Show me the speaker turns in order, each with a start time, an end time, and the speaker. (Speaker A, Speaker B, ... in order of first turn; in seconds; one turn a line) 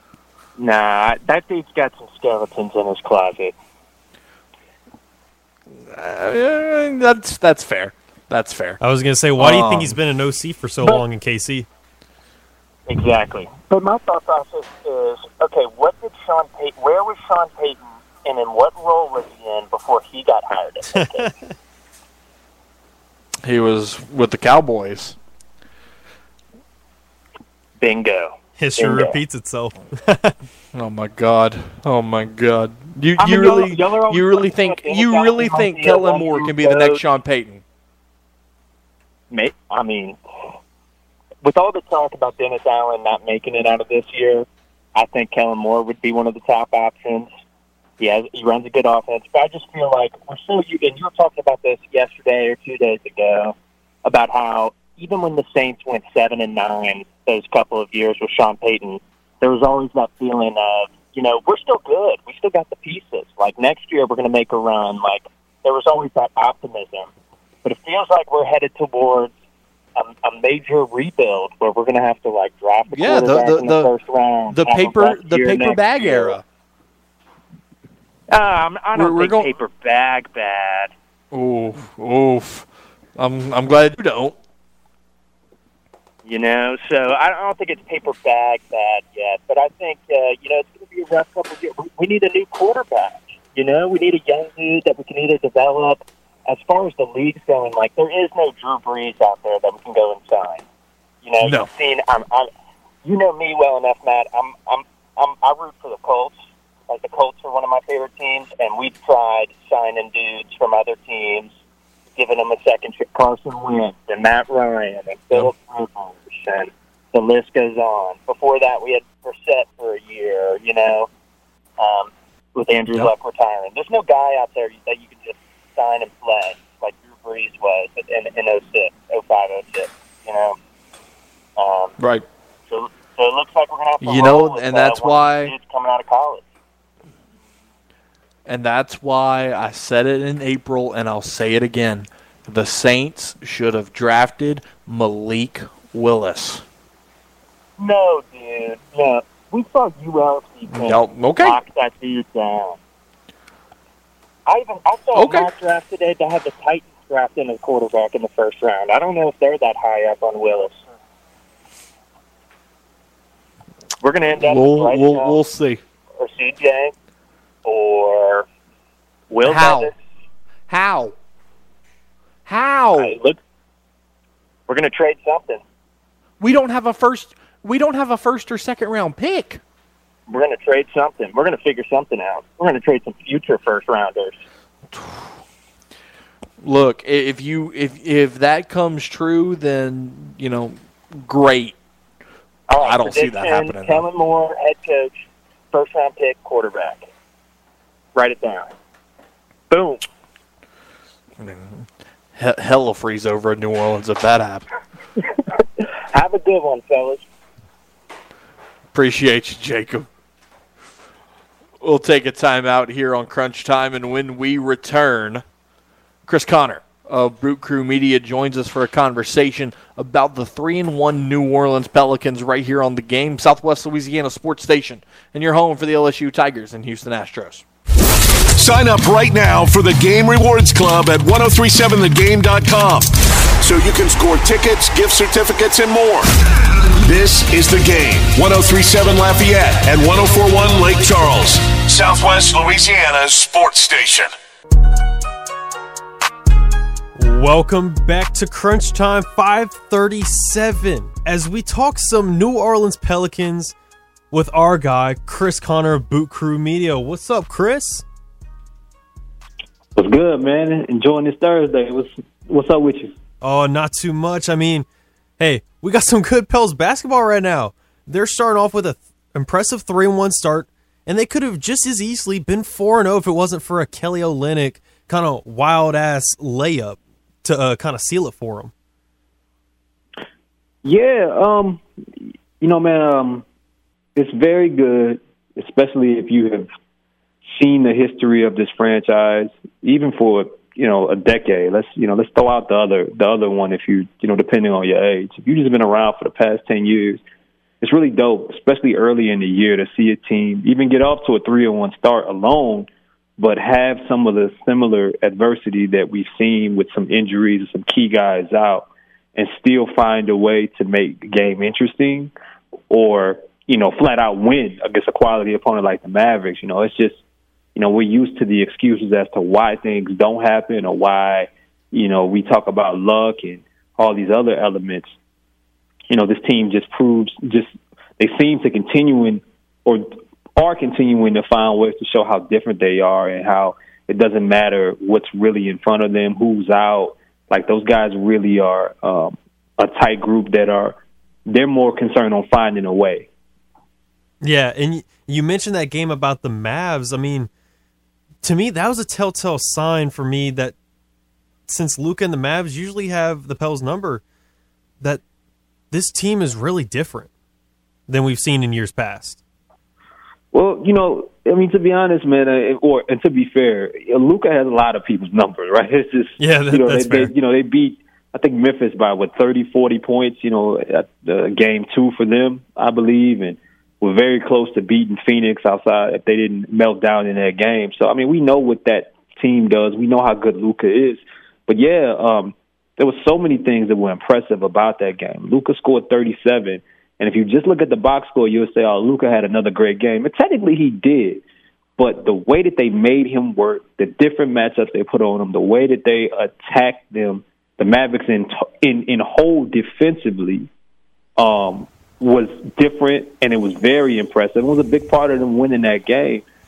Speaker A: 0.6-3.5
Speaker B: 5.8-8.8
Speaker C: 8.8-11.7
Speaker B: 9.4-9.9
Speaker A: 12.9-21.3
Speaker C: 20.9-21.5
Speaker B: 23.4-25.2
Speaker A: 27.8-29.2
Speaker C: 28.6-30.4
Speaker B: 30.7-37.6
Speaker A: 33.2-37.0
Speaker A: 39.3-40.2
Speaker A: 41.4-47.3
Speaker A: 48.0-67.1
Speaker A: 67.6-69.3
Speaker A: 70.0-76.4
Speaker B: 72.9-73.9
Speaker B: 74.5-76.4
Speaker A: 78.3-80.9
Speaker B: 78.9-79.5
Speaker B: 81.3-84.3
Speaker A: 86.2-100.6
Speaker A: 101.2-102.5
Speaker B: 101.4-101.7
Speaker A: 103.0-106.3
Speaker A: 106.9-111.5
Speaker A: 112.1-121.1
Speaker A: 121.8-130.6
Speaker A: 131.6-131.9
Speaker B: 132.0-132.2
Speaker A: 132.7-136.4
Speaker B: 134.0-135.5
Speaker B: 138.5-146.6
Speaker A: 147.8-152.8
Speaker B: 150.7-151.6
Speaker A: 154.4-160.8
Speaker B: 155.1-155.5
Speaker A: 164.0-165.4
Speaker B: 164.4-165.8
Speaker A: 166.2-166.9
Speaker A: 167.6-168.4
Speaker A: 169.3-169.9
Speaker B: 169.4-169.9
Speaker B: 170.7-171.1
Speaker B: 172.4-173.2
Speaker A: 173.0-173.4
Speaker A: 174.7-175.6
Speaker B: 176.4-179.6
Speaker A: 180.3-184.4
Speaker B: 184.9-185.3
Speaker B: 186.6-191.8
Speaker A: 192.7-197.1
Speaker B: 192.8-194.0
Speaker A: 198.1-198.7
Speaker A: 199.7-200.0
Speaker B: 201.4-204.7
Speaker A: 206.1-207.2
Speaker B: 208.9-210.1
Speaker B: 211.8-215.4
Speaker B: 216.2-227.6
Speaker D: 228.6-236.3
Speaker D: 237.0-244.3
Speaker C: 247.2-253.7
Speaker C: 254.3-258.0
Speaker E: 259.9-263.1
Speaker C: 263.4-264.9
Speaker C: 265.4-278.7
Speaker E: 280.8-281.8
Speaker E: 282.6-283.4
Speaker E: 284.1-286.7
Speaker E: 287.5-297.2
Speaker E: 297.8-312.3
Speaker E: 312.9-317.2
Speaker E: 317.7-325.1
Speaker E: 326.1-343.3
Speaker C: 344.4-347.5
Speaker C: 348.4-350.7
Speaker C: 351.7-354.2
Speaker C: 355.9-357.3
Speaker C: 358.1-359.4
Speaker E: 360.5-391.4
Speaker C: 366.4-367.3
Speaker E: 392.0-400.7
Speaker E: 401.4-406.4